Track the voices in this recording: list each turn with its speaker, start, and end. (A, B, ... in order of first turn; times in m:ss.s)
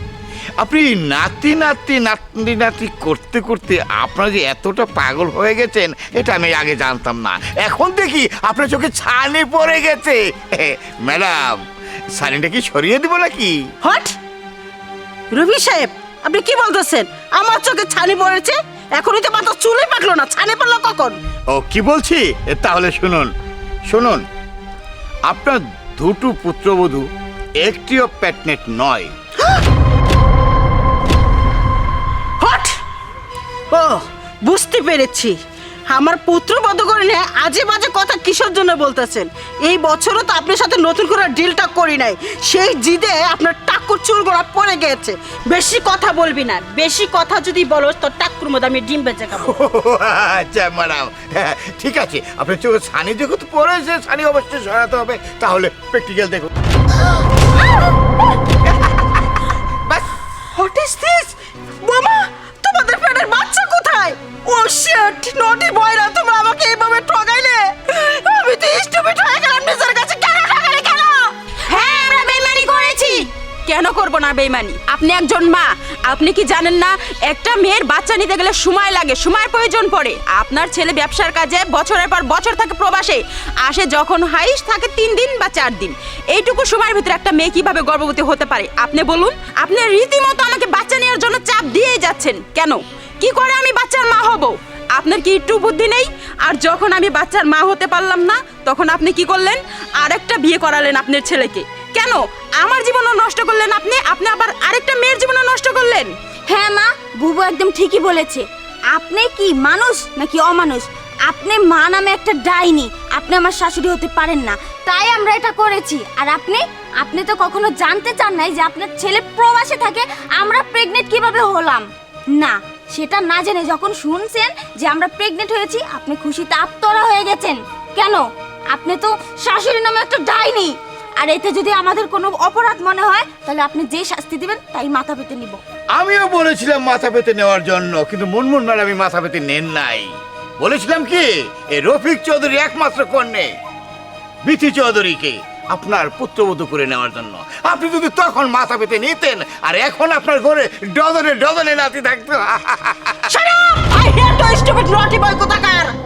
0:00.6-0:11.6 A
0:12.2-0:13.6 A
0:13.8-0:14.2 B
0:15.3-0:21.2 B
0:21.5-0:23.3 A
0:23.9-0:24.2 A
0:25.3-0:27.0 A
0:27.6-0:29.1 A
0:32.4-0:32.8 B
0:33.7-0:35.4 B
0:35.9-0:49.6 B
0:49.4-0:56.5 A
1:00.5-1:11.3 B
1:11.7-1:46.1 C
1:46.5-2:15.6 D
2:15.9-2:23.5 A
2:24.4-2:33.2 A
2:33.3-2:35.9 B